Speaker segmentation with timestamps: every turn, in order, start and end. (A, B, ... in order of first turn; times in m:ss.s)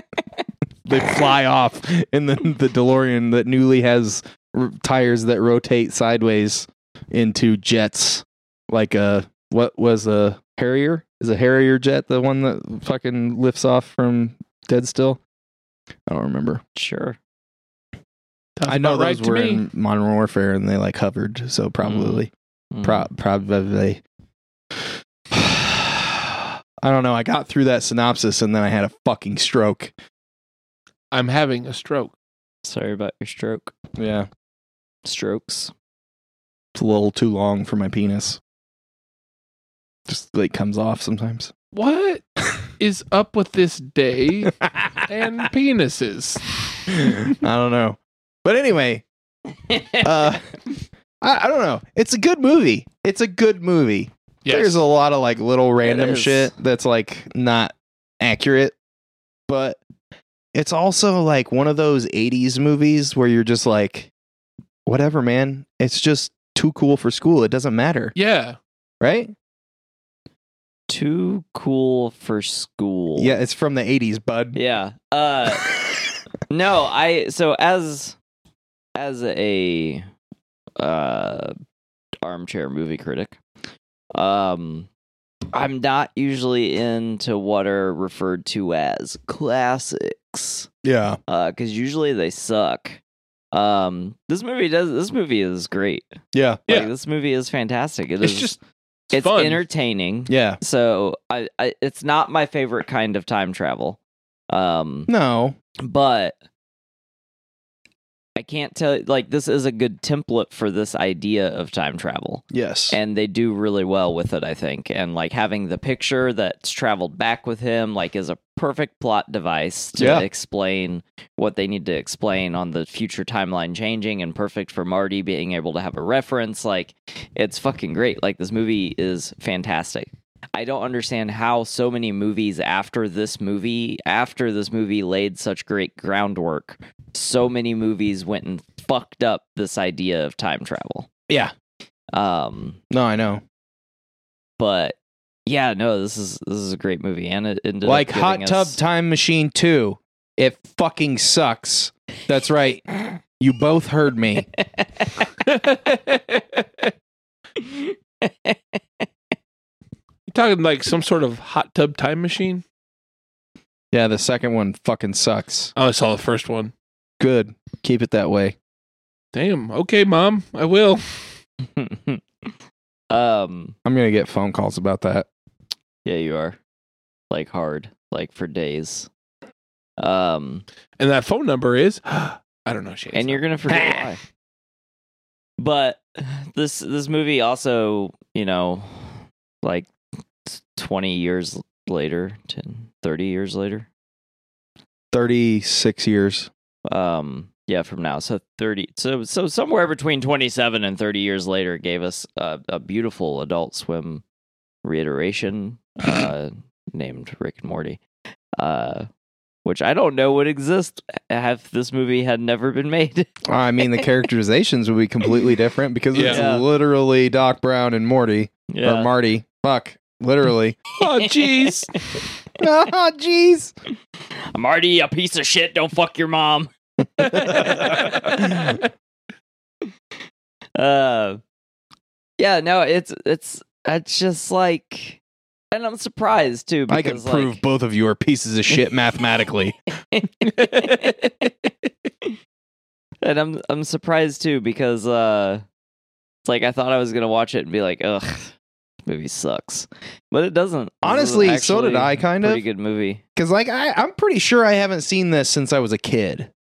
0:00.8-0:15.2 A
0:16.1-0:16.6 A
0:16.8-0:17.2 B
0:18.6-0:19.6 C
0:18.7-0:22.3 A
0:21.8-0:23.1 B
0:22.8-0:24.0 A
0:25.3-0:29.9 A
0:31.1-0:32.1 C
0:32.6-0:33.7 B
0:34.0-0:34.3 A
0:35.0-0:35.7 B
0:36.8-0:38.4 A
0:40.1-0:41.5 A
0:41.7-0:42.2 C
0:42.8-0:44.5 C
0:44.5-0:45.1 A
0:45.1-0:46.6 C
0:46.9-0:49.0 A
0:49.7-0:50.1 B
0:50.0-0:50.4 A
0:51.2-0:58.8 A
0:54.4-0:54.8 C
0:55.8-0:56.5 B
0:59.5-0:59.8 A
1:00.5-1:04.1 A
1:04.9-1:08.1 A
1:08.2-1:08.6 C
1:09.0-1:09.3 A
1:10.9-1:13.4 B
1:13.2-1:14.6 A
1:14.6-1:15.7 B
1:16.5-1:18.2 B
1:19.0-1:20.1 B
1:20.8-1:21.6 B
1:22.2-1:23.4 B
1:24.1-1:24.9 B
1:25.5-1:30.7 B
1:30.8-1:31.2 A
1:31.3-1:33.0 B
1:33.5-1:36.1 B
1:36.3-1:36.6 A
1:36.7-1:38.5 B
1:38.2-1:38.6 C
1:39.1-1:39.6 C
1:39.1-1:44.0 B
1:40.3-1:40.6 A
1:44.5-1:45.1 B
1:45.1-1:45.6 A
1:45.8-1:46.4 B
1:48.4-2:21.1 B
1:52.5-1:53.0 A
2:00.0-2:00.3 A
2:22.1-2:22.8 B
2:22.9-2:23.4 A
2:24.6-2:28.8 B
2:27.8-2:32.8 A
2:33.4-2:34.5 A
2:34.8-2:35.1 B
2:35.5-2:36.8 C
2:37.6-2:39.1 B
2:40.3-2:42.6 C
2:43.9-2:45.7 A
2:45.8-2:46.7 C
2:47.2-2:48.6 A
2:49.3-2:51.0 C
2:51.8-2:52.5 B
2:53.1-2:53.8 B
2:53.8-2:55.3 A
2:56.0-2:56.6 B
2:57.3-2:59.1 B
3:00.0-3:00.6 B
3:01.0-3:03.4 C
3:03.1-3:04.2 B
3:03.8-3:04.0 A
3:05.6-3:09.9 B
3:10.5-3:13.9 B
3:15.1-3:16.5 A
3:16.9-3:24.2 B
3:24.8-3:28.0 B
3:28.6-3:29.1 B
3:29.6-3:33.3 B
3:33.5-3:40.8 A
3:36.1-3:36.4 C
3:36.3-3:36.7 B
3:38.7-3:39.1 B
3:41.0-3:42.0 C
3:41.1-3:41.6 B
3:42.6-3:43.7 A
3:44.5-3:48.8 B
3:47.2-3:48.8 C
3:47.3-3:48.7 A
3:50.8-3:51.4 B
3:52.4-3:55.2 B
3:55.7-3:57.6 B
3:56.9-3:59.8 A
4:00.1-4:01.3 B
4:00.6-4:01.3 C
4:03.2-4:05.6 B
4:06.4-4:08.5 B
4:09.0-4:13.2 B
4:11.0-4:12.6 A
4:13.4-4:16.5 A